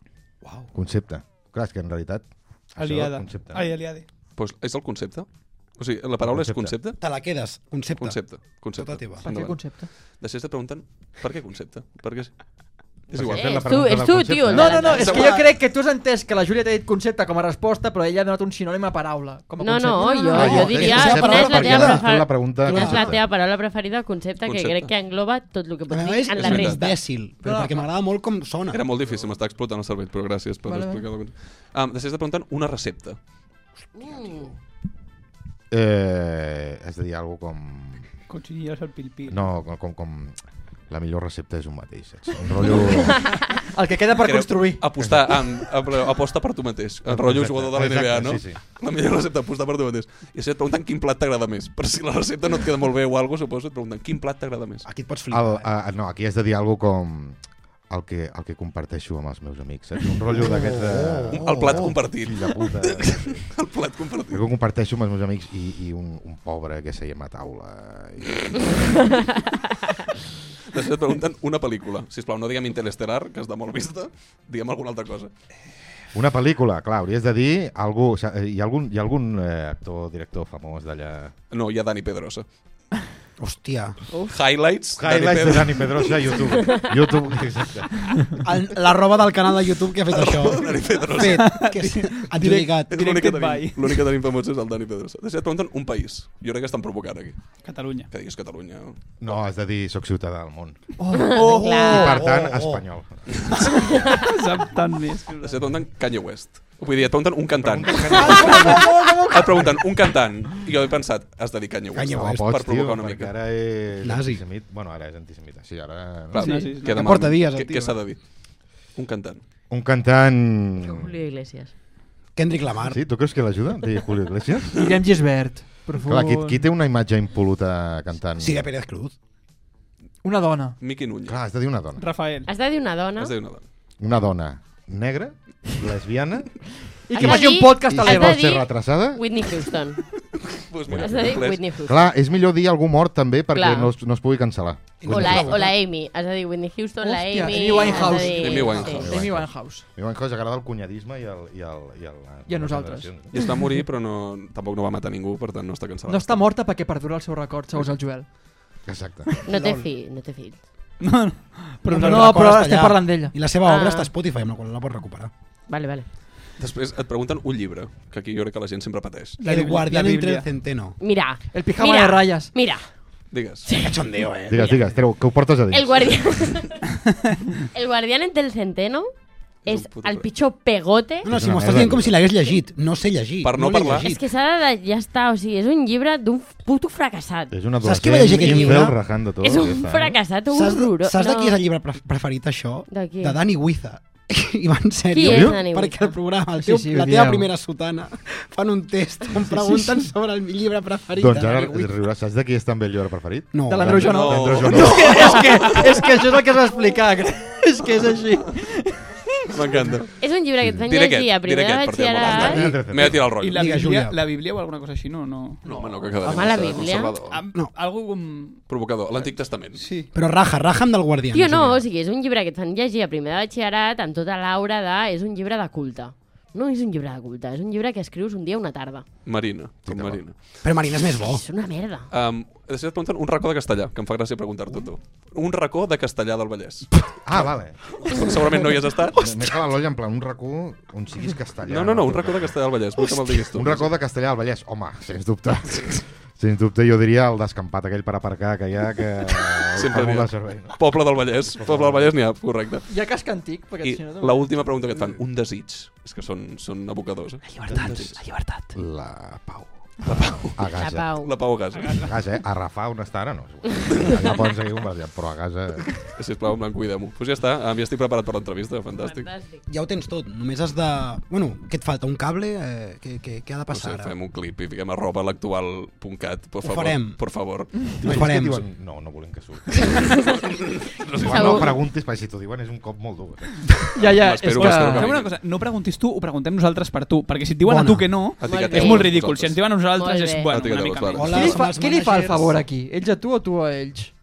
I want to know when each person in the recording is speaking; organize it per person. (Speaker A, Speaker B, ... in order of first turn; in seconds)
Speaker A: 0.4-0.7, 7.0-9.2, 14.9-15.5, 20.3-22.0, 25.9-28.8, 54.8-55.7, 60.3-62.0, 83.4-84.0, 88.4-92.9, 101.4-102.8, 111.9-112.4, 114.0-114.4, 116.8-118.0, 122.3-123.0, 128.4-129.1, 145.0-145.7, 161.8-165.3, 169.4-171.0, 173.7-175.0, 181.2-184.2, 187.8-189.0, 190.5-201.9, 203.5-204.8, 213.0-214.2, 220.1-221.8, 230.6-231.4, 269.7-274.1, 276.6-277.2, 278.0-278.6, 287.6-288.3, 291.1-292.6
Speaker B: 0.7-3.7, 6.2-6.7, 13.1-15.0, 20.3-23.2, 35.7-38.1, 39.3-40.3, 40.9-43.2, 45.0-45.4, 47.1-48.6, 55.3-57.4, 57.9-63.4, 64.3-69.2, 76.1-81.3, 85.0-88.4, 99.2-100.8, 101.8-103.9, 107.6-108.7, 112.1-116.6, 119.7-121.1, 122.9-124.8, 126.0-128.7, 131.2-132.1, 134.0-139.2, 140.9-145.7, 148.7-153.4, 158.8-159.3, 174.5-176.4, 181.3-182.2, 187.5-190.2, 195.2-195.6, 201.2-205.4, 212.3-213.4, 229.8-230.2, 237.2-238.6, 239.1-252.1, 257.7-261.1, 262.0-265.9, 278.0-280.5, 281.2-283.7
Speaker C: 2.8-4.0, 38.3-39.4, 91.2-94.0, 97.6-98.1, 101.3-102.0, 104.1-105.6, 116.4-117.2, 132.0-132.5, 161.0-162.3, 169.4-170.4, 177.3-177.6, 213.4-215.6, 217.2-218.6, 261.7-262.1, 284.5-291.4
Speaker D: 4.3-7.0, 8.0-12.4, 13.1-13.7, 14.9-15.3, 24.4-24.9, 26.4-26.9, 28.7-33.2, 44.2-54.9, 61.3-64.4, 70.7-75.3, 81.5-82.5, 84.3-86.4, 90.1-91.5, 92.9-99.0, 105.4-108.5, 109.3-113.3, 116.3-118.2, 118.9-119.4, 130.8-131.4, 133.2-133.6, 140.5-141.6, 148.2-149.1, 153.3-156.5, 166.6-169.4, 173.3-173.7, 179.6-180.3, 183.4-184.1, 204.0-205.4, 209.5-210.1, 210.8-213.7, 215.6-217.4, 218.7-219.8, 229.2-230.3, 232.1-237.0, 238.0-239.3, 241.6-243.9, 249.6-252.8, 253.8-258.2, 260.1-262.0, 263.9-264.4, 265.9-269.3, 273.7-277.9, 280.3-281.7, 283.9-285.3, 288.4-289.8, 290.5-291.6
Speaker E: 9.2-9.9, 14.5-21.4, 22.6-23.1, 27.4-27.9, 30.6-31.1, 43.4-44.8, 101.0-101.4, 108.1-109.7, 124.8-126.7, 130.2-130.8, 137.1-138.4, 147.0-149.8, 152.5-153.1, 156.1-158.3, 159.5-159.8, 161.9-163.3, 171.5-172.5, 196.6-197.5, 203.7-209.5, 215.6-216.4, 219.7-220.1, 252.9-254.8, 283.9-285.1, 291.2-294.1
Speaker F: 13.2-15.3, 19.6-27.0, 33.9-34.5, 101.1-102.2, 104.0-104.2, 120.8-121.7, 132.4-133.3, 137.2-140.0, 140.9-142.0, 143.5-143.9, 145.0-149.1, 159.4-160.7, 163.7-164.1, 165.7-166.1, 171.0-172.8, 173.7-174.0, 175.7-176.8, 177.7-179.1, 179.7-181.3, 184.0-187.5, 188.3-188.9, 189.4-191.5, 192.9-193.4, 195.1-196.1, 210.2-212.8, 216.2-217.2, 221.3-229.2, 231.2-232.1, 260.7-261.3, 268.9-269.6, 281.3-281.8, 288.4-289.2, 289.8-291.2